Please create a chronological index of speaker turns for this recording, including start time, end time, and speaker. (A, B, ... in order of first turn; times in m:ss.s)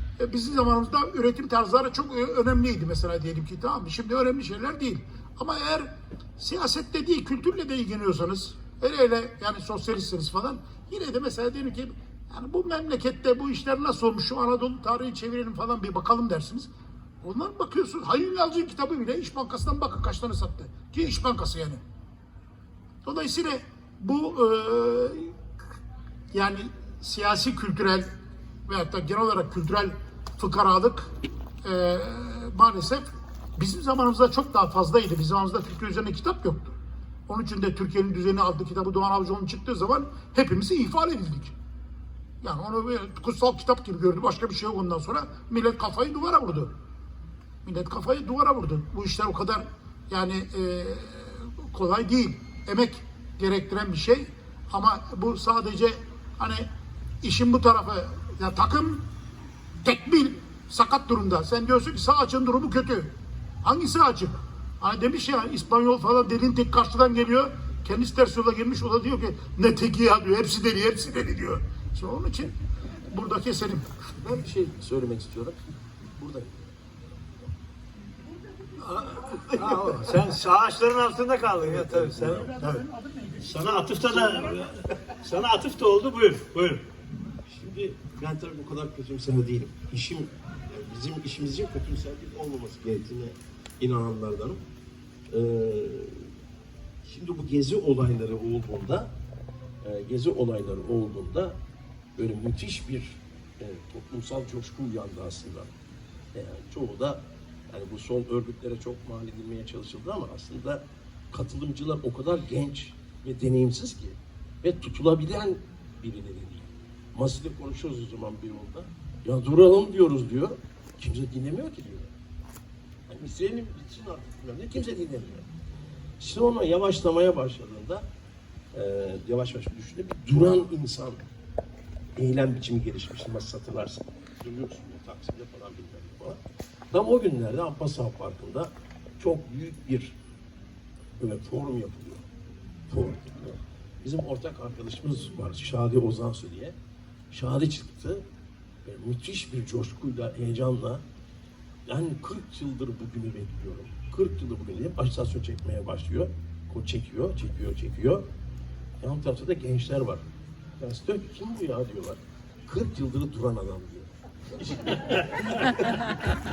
0:00.2-0:16.7 A
0:17.2-0:21.8 A
0:23.0-0:25.3 A
0:26.3-0:28.1 A
0:28.7-0:31.1 A
0:31.6-0:33.0 A
0:33.6-0:36.8 A
0:37.3-0:41.5 A
0:42.4-0:46.7 A
0:47.6-0:56.7 A
0:57.2-0:59.0 A
0:59.8-1:12.5 A
1:13.1-1:13.9 A
1:14.2-1:15.6 B
1:16.1-1:16.7 B
1:18.8-1:22.8 C
1:19.1-1:20.2 B
1:21.4-1:22.5 B
1:22.4-1:23.4 A
1:23.4-1:25.2 B
1:23.5-1:24.5 C
1:25.2-1:26.8 C
1:27.5-1:34.6 B
1:35.3-1:36.3 B
1:37.0-1:39.1 B
1:39.8-1:41.6 B
1:42.2-1:45.7 B
1:46.3-2:02.1 B
2:03.1-2:05.5 B
2:06.2-2:08.0 B
2:08.7-2:11.2 B
2:12.2-2:16.4 B
2:16.9-2:20.2 B
2:21.2-2:22.2 B
2:22.9-2:26.7 B
2:27.3-2:28.2 B
2:28.8-2:31.0 B
2:31.9-2:38.2 B
2:39.0-2:40.2 B
2:40.8-2:45.7 B